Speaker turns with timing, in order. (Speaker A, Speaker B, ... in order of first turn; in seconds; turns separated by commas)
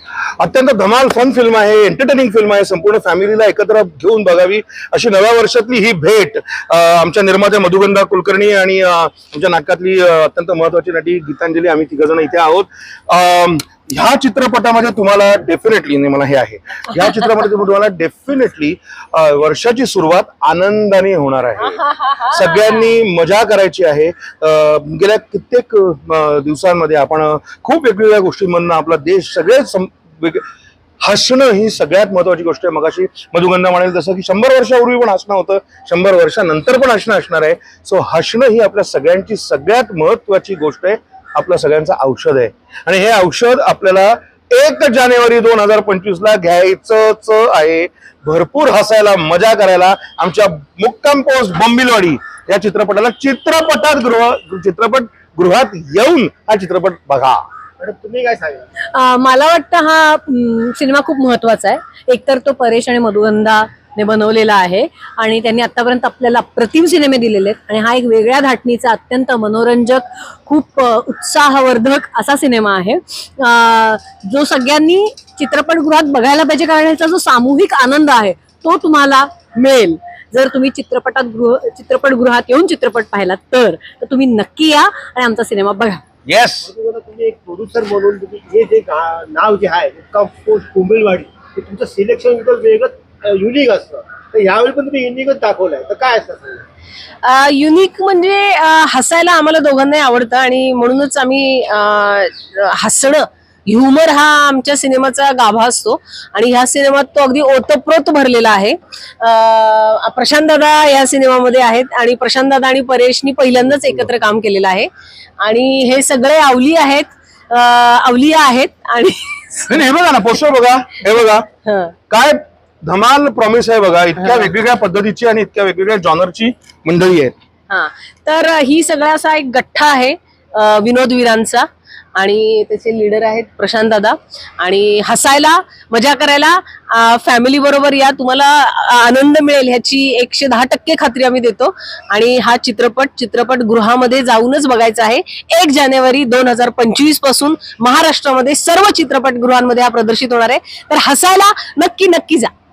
Speaker A: 0.4-30.4, Speaker B: 21.8-22.4, Speaker A: 31.0-57.4, Speaker C: 57.8-58.7, Speaker D: 58.9-86.0, Speaker A: 86.3-86.7, Speaker C: 86.6-96.7, Speaker B: 97.2-119.7, Speaker A: 119.7-121.5, Speaker B: 121.7-121.9, Speaker A: 122.1-127.3, Speaker B: 124.2-124.5, Speaker B: 127.7-152.5